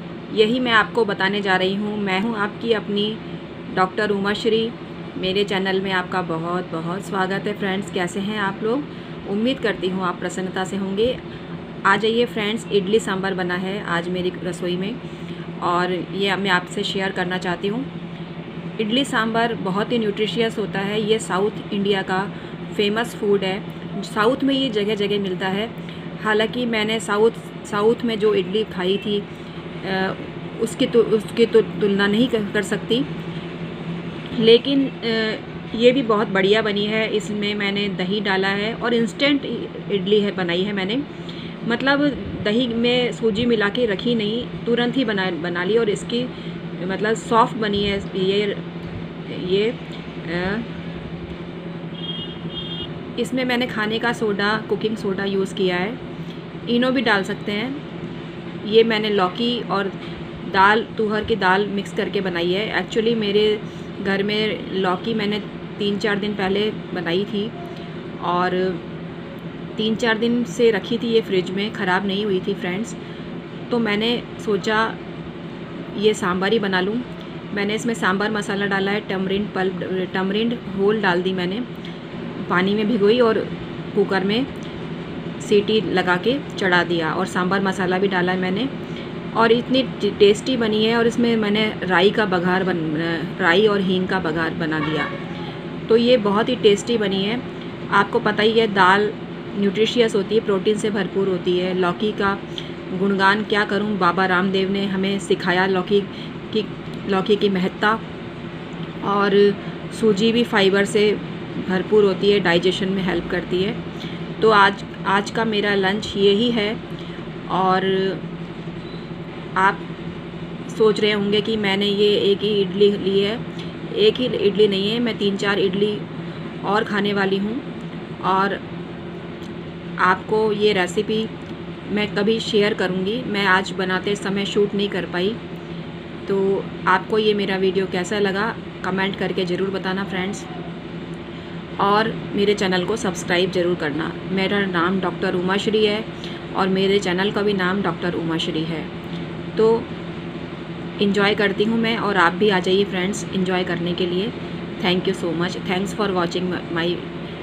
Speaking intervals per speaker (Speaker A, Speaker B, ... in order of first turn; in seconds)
Speaker A: 0.3-3.2, 3.7-11.2, 11.8-15.0, 15.6-17.9, 18.8-29.2, 29.8-33.1, 34.3-41.0, 41.6-48.6, 49.2-50.7, 53.2-56.0, 56.7-57.8, 58.6-67.5, 68.2-68.8, 69.8-73.0, 73.7-75.0, 75.9-81.7, 82.5-84.5, 85.4-88.7, 89.3-95.1, 95.9-108.0, 109.0-113.8, 114.4-116.8, 117.5-118.2, 119.5-119.8, 120.7-126.0, 126.6-127.6, 128.2-128.6, 130.0-131.3, 131.9-135.4, 136.2-140.5, 141.8-148.9, 149.5-149.9, 151.0-157.1